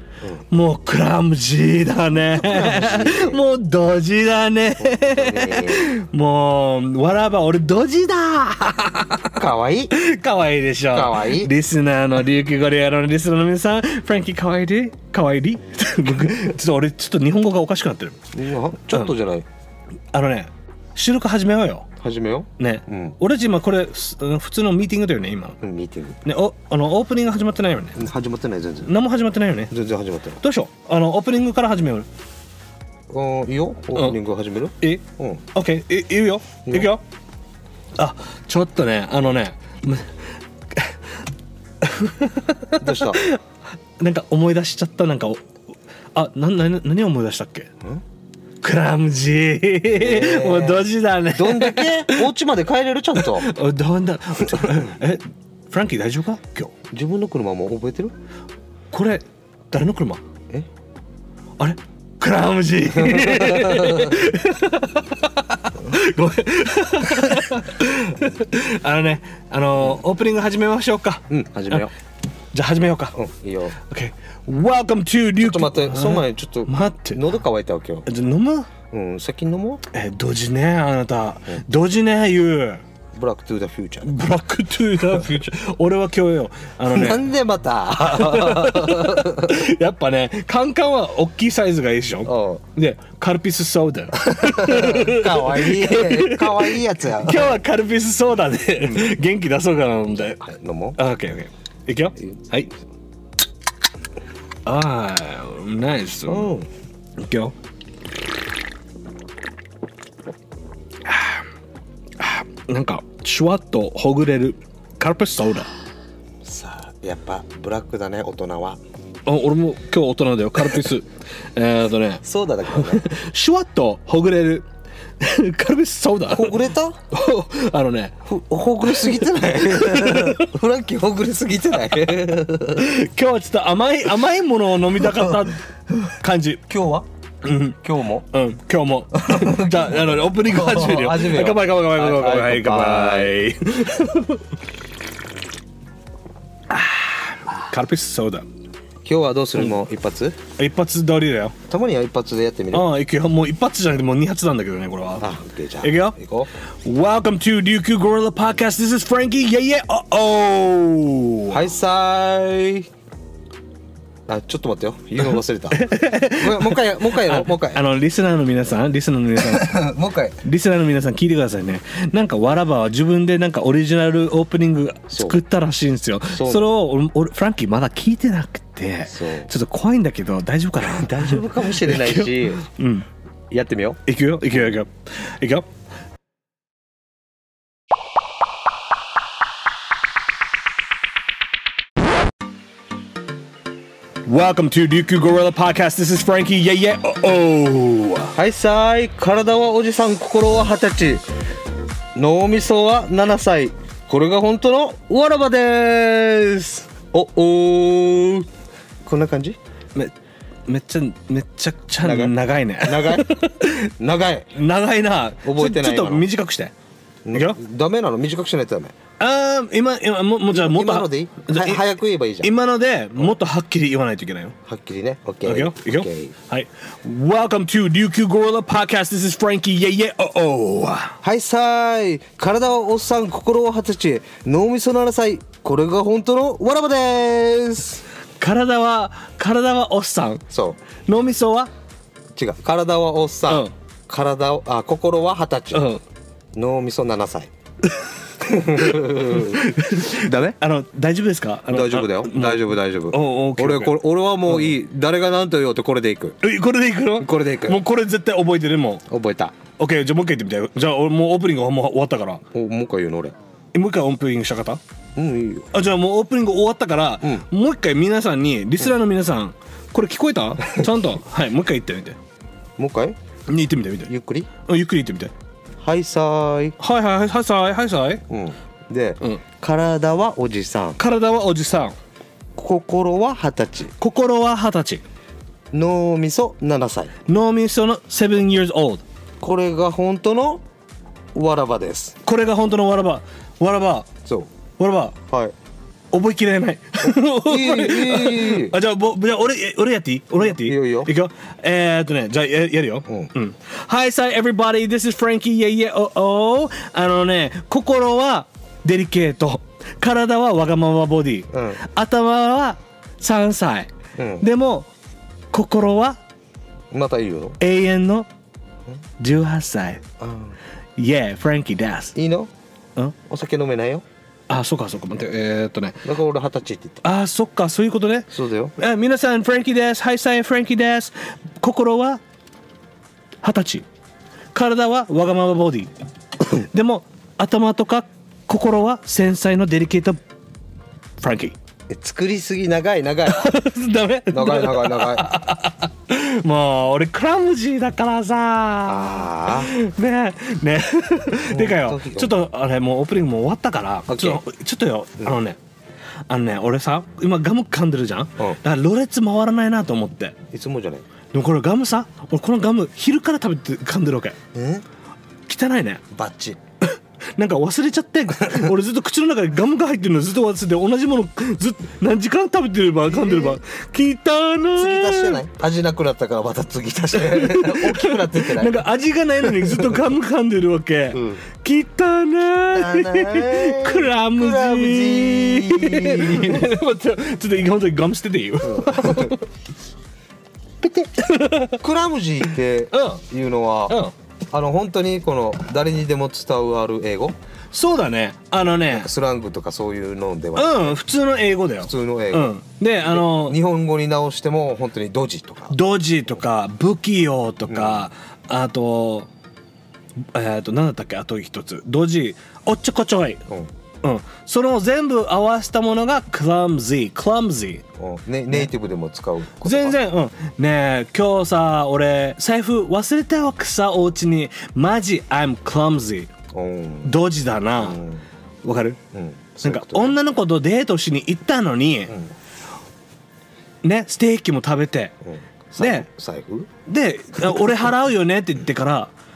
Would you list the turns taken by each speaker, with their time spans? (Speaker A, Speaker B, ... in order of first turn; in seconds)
Speaker A: 0.5-9.4, 9.9-18.2, 20.1-21.9, 22.6-25.6, 26.2-28.0, 28.8-29.7, 30.4-32.1, 34.8-37.0, 38.0-41.0, 41.8-43.4, 44.0-45.5, 46.1-47.7, 48.6-52.3, 53.2-56.7, 58.9-60.2, 61.6-71.9, 72.5-73.2, 73.8-77.2, 78.0-78.7, 79.9-82.8, 84.0-87.2, 88.1-100.4, 101.0-102.7, 104.6-106.5, 107.2-107.5, 111.0-111.4, 112.2-115.7, 119.2-122.2, 122.7-124.7, 125.2-128.2, 128.8-130.5, 132.7-136.6, 137.4-144.4, 146.7-148.4, 150.6-151.5, 152.7-155.3, 155.8-156.2, 156.8-161.7, 165.7-169.8, 170.4-183.1, 184.1-185.7, 194.2-198.3, 210.7-213.9, 214.5-216.7, 219.2-221.8, 222.4-224.5, 225.4-231.2, 238.4-240.4, 241.1-241.7, 245.7-246.0, 248.7-253.9, 256.4-259.1, 259.8-262.4, 263.7-264.8, 265.7-272.2, 273.5-274.1, 274.6-275.3, 276.8-278.2, 281.0-281.9, 284.0-285.0, 287.3-289.0, 292.2-294.1, 294.8-295.2, 296.1-314.9, 315.5-316.2, 317.6-318.3, 319.2-320.0, 321.0-322.1, 324.5-326.0, 327.0-332.2, 333.4-333.9, 334.5-335.9, 336.5-340.2, 341.2-341.6, 343.3-355.6, 356.3-360.4, 361.3-364.4, 365.5-366.0, 366.8-375.4, 377.2-389.4, 391.1-391.8, 392.9-393.2, 393.9-394.1, 397.7-399.1, 400.5-403.6, 405.7-409.3, 410.3-413.4, 414.0-417.8, 419.6-426.3, 427.0-428.0, 428.6-429.0, 429.6-432.1, 433.8-435.2, 435.8-436.1, 436.9-439.1
Speaker B: 2.3-3.4, 4.8-5.9, 9.4-9.9, 10.9-11.5, 18.3-19.5, 22.0-23.2, 25.6-26.2, 27.9-28.9, 29.7-30.4, 33.1-35.4, 42.8-43.2, 49.9-53.5, 54.4-54.9, 56.9-58.1, 63.0-64.2, 71.3-71.9, 73.1-73.8, 75.4-78.1, 78.9-79.8, 83.1-84.2, 86.9-89.5, 92.2-92.6, 94.3-97.6, 100.4-101.0, 106.2-106.7, 116.4-118.8, 122.2-123.1, 126.3-127.0, 128.2-132.9, 136.7-137.1, 137.8-138.3, 139.1-143.3, 149.0-150.4, 151.7-152.9, 155.2-156.5, 161.5-162.9, 164.3-167.8, 169.4-170.4, 175.1-175.4, 176.3-176.7, 179.1-179.5, 180.8-182.6, 183.5-184.0, 198.3-201.2, 202.1-208.5, 209.0-209.6, 212.0-213.3, 214.0-214.5, 215.4-216.3, 217.2-218.9, 220.5-222.5, 224.7-226.3, 231.2-238.0, 240.5-240.8, 242.3-245.9, 246.5-247.5, 248.4-250.6, 251.7-256.4, 257.2-257.8, 259.1-259.6, 262.5-263.3, 265.1-265.7, 272.8-273.2, 274.1-274.5, 275.8-276.8, 278.3-281.0, 282.6-283.9, 285.7-287.1, 289.4-290.6, 291.3-292.2, 294.2-294.5, 295.3-295.5, 297.4-298.7, 300.4-301.1, 311.5-311.8, 314.1-314.4, 316.9-317.6, 320.2-320.6, 322.1-322.5, 323.2-324.0, 326.0-327.0, 328.3-328.7, 341.9-343.5, 344.3-345.3, 348.9-349.7, 351.5-352.3, 354.1-354.4, 360.5-361.1, 364.5-364.8, 366.1-366.6, 373.1-373.6, 374.8-378.8, 379.4-380.0, 381.1-381.4, 382.7-386.7, 388.6-389.4, 391.8-394.0, 394.5-397.3, 398.9-401.0, 401.8-405.8, 407.7-408.1, 418.0-420.0, 426.5-427.2, 427.8-428.2, 429.1-430.2, 435.2-436.7